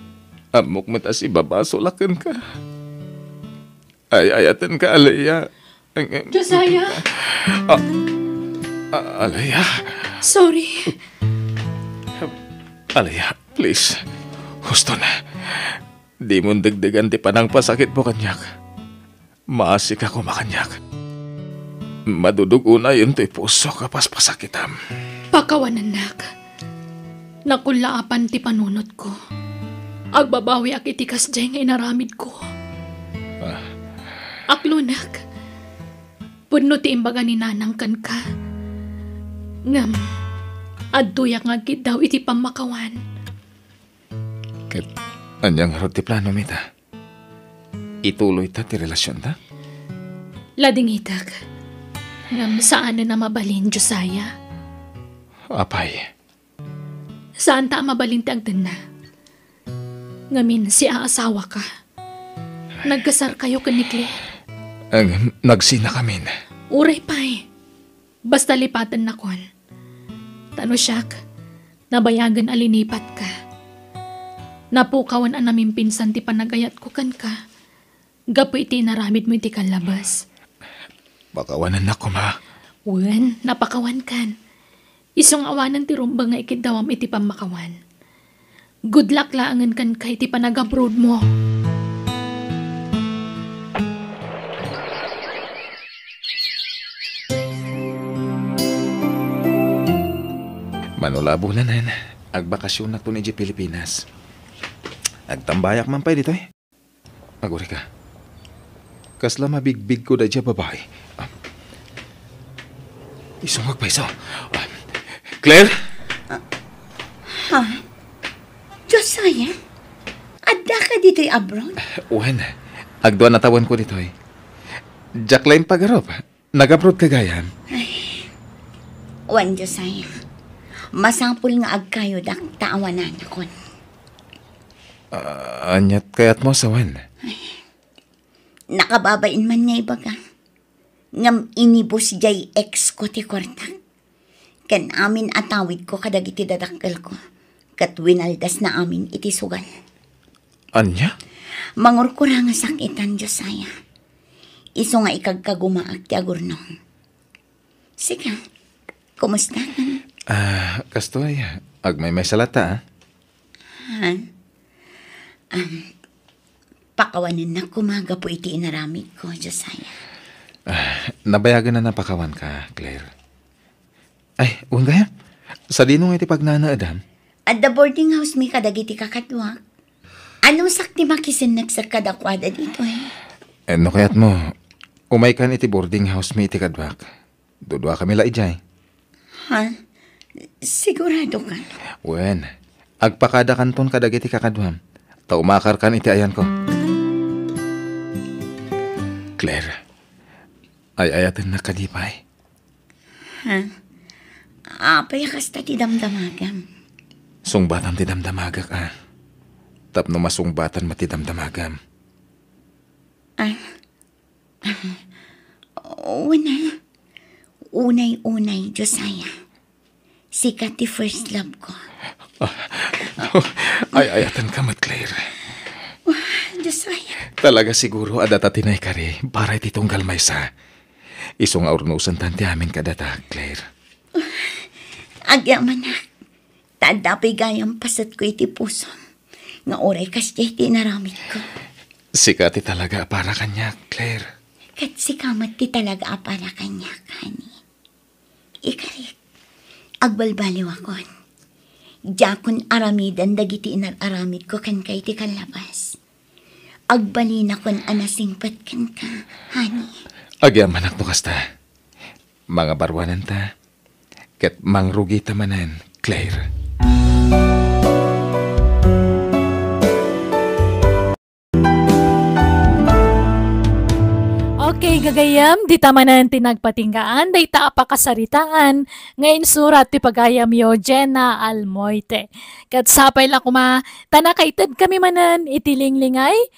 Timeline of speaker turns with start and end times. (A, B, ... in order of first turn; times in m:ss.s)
0:00.5-0:02.4 A
0:04.1-0:07.8 A
0:06.3-0:07.0 B
0:08.9-0:10.1 A
0:10.2-0:10.9 B
0:12.9-0:14.0 A
0:14.6-0:18.5 A
0:19.5-0:20.8 A
0:22.1-0:24.7 A
0:25.3-0:26.2 B
0:27.5-0:29.1 B
0:30.1-0:32.4 B
0:33.4-0:33.6 A
0:34.5-0:35.2 B
0:36.5-0:38.2 B
0:39.7-0:40.0 B
0:40.9-0:43.0 B
0:45.4-0:46.6 A
0:48.0-0:49.4 A
0:50.6-0:51.4 B
0:52.3-0:54.3 B
0:55.5-0:56.1 A
0:57.4-0:58.8 B
1:00.3-1:01.6 B
1:02.8-1:04.2 B
1:04.9-1:06.3 A
1:06.7-1:07.4 B
1:08.3-1:09.4 B
1:10.6-1:11.1 B
1:11.9-1:13.3 B
1:14.7-1:17.4 B
1:18.3-1:20.2 B
1:21.3-1:22.4 A
1:22.9-1:24.3 B
1:25.2-1:27.7 B
1:28.9-1:31.2 B
1:41.0-1:44.0 A
1:45.3-1:46.4 A
1:47.4-1:47.8 A
1:49.2-1:51.3 A
1:53.4-1:54.8 A
1:55.4-1:55.7 A
1:57.3-1:57.8 C
1:58.9-1:59.5 C
2:00.5-2:01.8 C
2:02.1-2:02.5 A
2:03.0-2:04.1 A
2:05.3-2:07.5 A
2:07.7-2:08.2 C
2:09.3-2:10.1 C
2:11.0-2:13.5 C
2:15.1-2:17.0 A
2:17.2-2:17.5 C
2:18.7-2:20.2 C
2:21.2-2:23.8 C
2:24.7-2:27.2 C
2:27.8-2:29.7 C
2:30.8-2:31.1 A
2:31.8-2:33.7 C
2:34.8-2:36.6 C
2:38.0-2:38.4 C
2:39.2-2:40.0 C
2:40.3-2:42.8 A
2:43.8-2:44.2 C
2:45.5-2:45.8 C
2:47.0-2:50.0 C
2:50.7-2:53.1 A
2:54.4-2:55.1 A
2:55.7-2:57.0 A
2:57.5-2:59.6 C
3:00.4-3:03.1 C
3:03.7-3:04.5 A
3:05.1-3:07.0 A
3:07.7-3:08.6 A
3:09.5-3:09.7 C
3:10.6-3:11.6 C
3:12.0-3:12.5 A
3:13.0-3:14.8 A
3:15.3-3:16.5 A
3:19.4-3:19.8 A
3:21.0-3:22.2 A
3:23.4-3:23.7 C
3:24.8-3:26.6 C
3:27.5-3:28.9 A
3:29.9-3:31.8 A
3:34.6-3:35.0 C
3:35.8-3:36.7 C
3:37.7-3:39.3 C
3:40.4-3:41.8 C
3:42.4-3:45.2 A
3:46.1-3:47.2 C
3:47.4-3:50.4 A
3:51.4-3:53.6 A
3:54.2-3:54.6 C
3:55.3-3:56.0 C
3:56.8-3:59.0 C
3:59.7-4:01.4 C
4:02.2-4:04.3 A
4:04.8-4:07.6 C
4:08.6-4:09.1 C
4:10.0-4:11.1 C
4:12.2-4:16.0 C
4:16.9-4:20.0 C
4:20.4-4:21.4 A
4:22.5-4:23.4 A
4:24.4-4:26.4 A
4:34.6-4:46.4 B